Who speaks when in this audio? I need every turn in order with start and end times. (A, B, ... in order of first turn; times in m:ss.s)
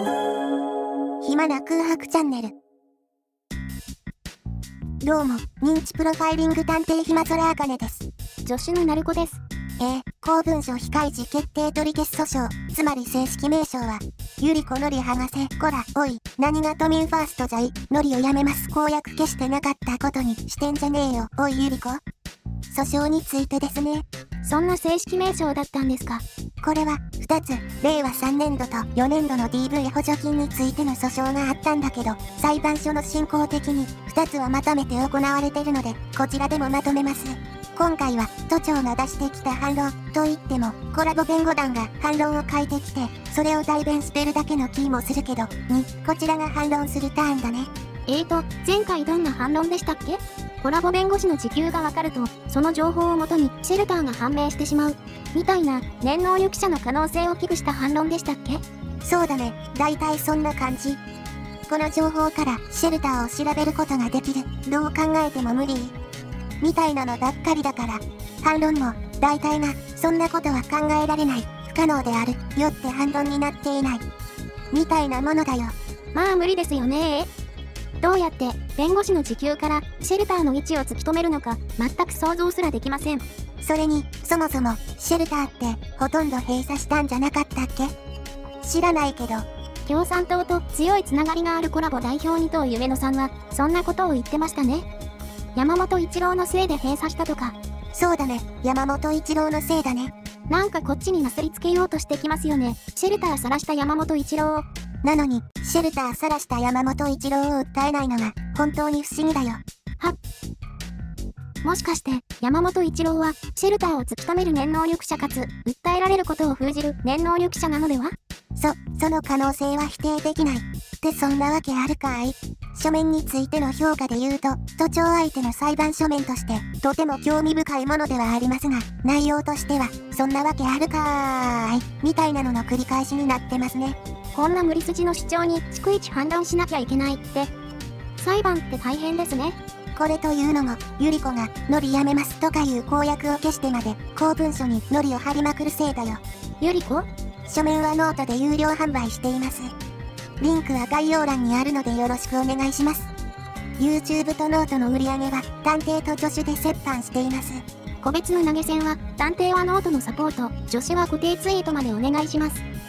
0:01.2-0:02.5 A
0:05.0-0:08.1 A
0:08.4-0:09.4 B
0:09.8-0:22.0 A
0:22.7-0:24.0 A
0:24.4-0:26.2 B
0:26.6-0:47.7 A
0:48.1-0:58.6 B
0:59.0-1:01.0 A
1:01.7-1:06.0 A
1:06.6-1:14.0 A
1:14.7-1:15.7 A
1:16.1-1:17.3 B
1:18.0-1:23.2 B
1:23.6-1:27.9 A
1:28.6-1:29.4 A
1:29.8-1:34.9 B
1:35.5-1:37.6 B
1:37.9-1:40.1 A
1:40.5-1:44.6 B
1:45.0-1:49.6 A
1:51.6-1:58.1 B
1:58.6-2:14.0 A
2:14.3-2:17.5 B
2:18.2-2:19.6 B
2:19.9-2:26.2 A
2:26.6-2:27.1 B
2:27.5-2:29.7 A
2:30.4-2:33.1 A
2:33.8-2:37.6 A
2:38.0-2:42.6 B